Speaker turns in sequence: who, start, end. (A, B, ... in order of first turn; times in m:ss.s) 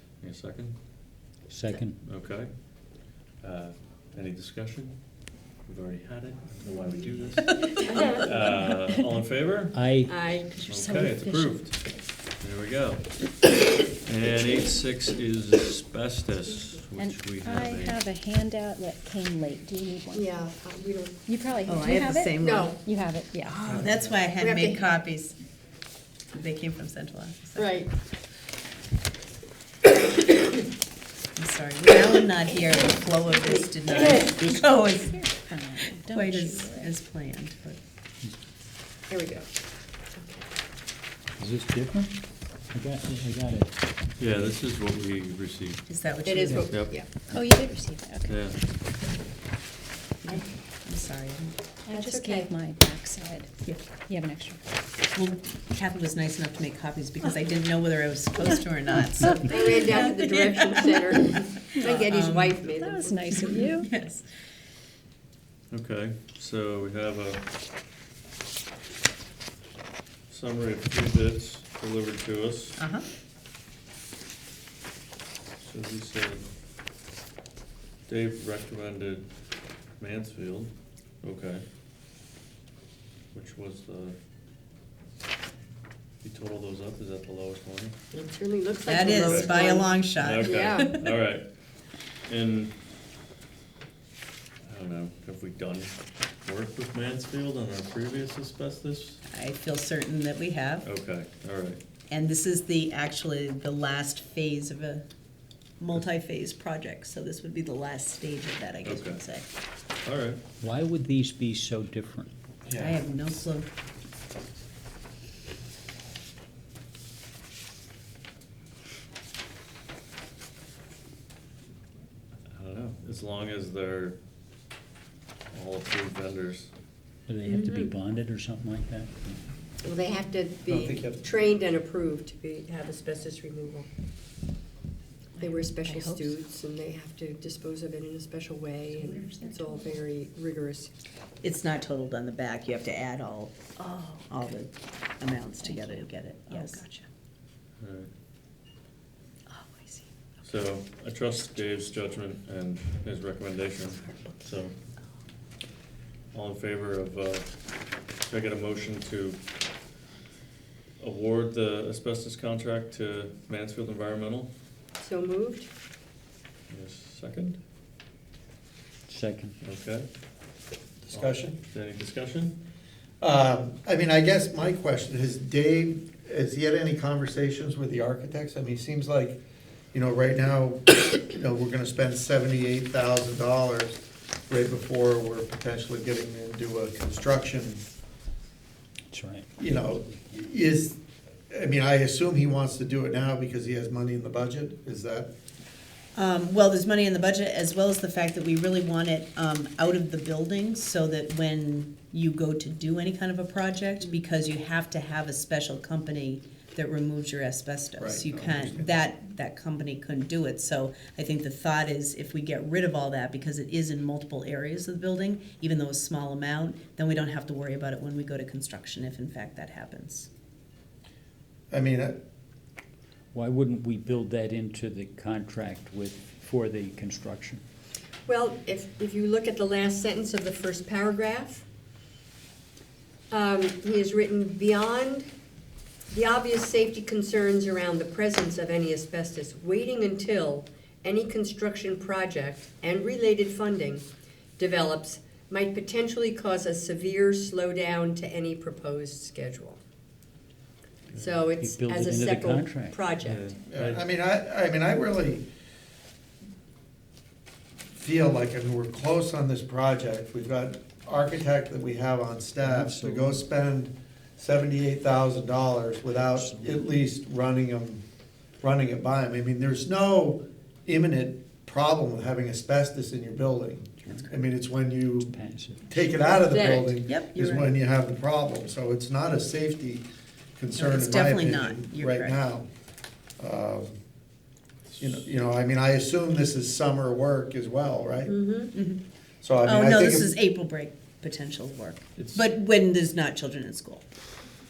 0:00.2-0:00.8 A
0:01.5-0:02.0 B
0:02.0-0:09.8 A
0:07.7-0:09.0 C
0:07.9-0:08.2 D
0:09.7-0:10.3 B
0:10.1-0:10.5 D
0:10.4-0:11.7 C
0:10.5-0:18.0 A
0:17.0-0:20.4 C
0:20.1-0:21.7 D
0:21.3-0:23.7 C
0:21.7-0:22.8 E
0:22.4-0:22.7 D
0:23.4-0:25.4 E
0:23.6-0:24.0 A
0:24.4-0:24.8 D
0:26.3-0:27.7 E
0:27.6-0:27.9 D
0:31.4-0:37.8 E
0:33.3-0:33.6 C
0:34.2-0:37.0 C
0:39.1-0:39.5 D
0:40.2-0:40.4 D
0:41.4-0:43.7 B
0:44.2-0:45.8 A
0:45.9-0:46.7 E
0:46.2-0:47.1 D
0:46.5-0:47.0 A
0:47.3-0:48.4 C
0:48.3-0:48.6 A
0:50.2-0:51.6 E
0:51.9-0:54.6 C
0:51.9-0:52.5 D
0:55.1-1:02.7 E
0:59.4-1:03.5 D
1:02.7-1:03.9 C
1:03.3-1:04.2 E
1:05.7-1:07.4 A
1:10.3-1:12.8 A
1:12.8-1:13.1 E
1:15.6-1:16.4 A
1:18.1-1:19.3 A
1:20.0-1:21.6 A
1:23.3-1:24.2 A
1:26.2-1:28.0 A
1:28.1-1:30.9 D
1:28.9-1:31.1 E
1:28.9-1:31.5 A
1:32.3-1:32.7 A
1:34.6-1:39.2 A
1:39.3-1:40.9 E
1:40.8-1:41.8 A
1:42.1-1:45.0 E
1:45.8-1:49.5 E
1:48.8-1:49.2 A
1:50.0-1:50.4 A
1:50.6-1:52.3 B
1:52.7-1:53.0 F
1:52.8-1:53.7 E
2:02.5-2:04.2 A
2:05.5-2:06.7 A
2:07.3-2:09.4 B
2:07.5-2:07.9 D
2:09.8-2:13.9 D
2:10.7-2:11.4 F
2:15.4-2:16.4 C
2:15.4-2:20.9 D
2:18.9-2:20.0 C
2:21.4-2:26.9 E
2:23.9-2:24.2 C
2:25.6-2:27.0 C
2:27.8-2:28.1 A
2:30.4-2:34.7 A
2:36.3-2:37.6 A
2:38.2-2:39.4 A
2:41.0-2:44.5 A
2:45.0-2:45.7 D
2:46.7-2:47.6 A
2:49.1-2:49.5 B
2:49.6-2:50.1 A
2:51.1-2:51.6 F
2:51.1-2:52.6 A
2:53.2-2:59.4 F
2:59.9-3:07.8 F
3:09.1-3:10.3 B
3:09.6-3:11.0 F
3:11.5-3:15.3 F
3:16.2-3:40.3 E
3:28.0-3:29.0 F
3:41.7-3:42.2 F
3:43.3-3:47.6 B
3:48.3-3:51.6 D
3:53.3-3:55.3 D
3:56.1-4:04.0 D
4:04.6-4:09.8 D
4:11.1-4:11.4 A
4:11.1-4:13.5 D
4:11.6-4:13.1 B
4:13.2-4:14.0 A
4:13.7-4:15.5 F
4:18.0-4:28.0 F
4:22.6-4:23.4 B
4:26.2-4:26.8 B
4:28.6-4:40.0 F
4:35.3-4:36.1 B
4:36.4-4:37.0 D
4:37.1-4:37.7 E
4:40.6-4:42.7 F
4:40.8-4:42.4 E
4:43.4-4:44.0 F
4:45.0-4:48.4 F
4:48.3-4:48.7 D
4:48.7-4:49.0 E
4:49.4-4:50.3 F
4:49.6-4:54.0 E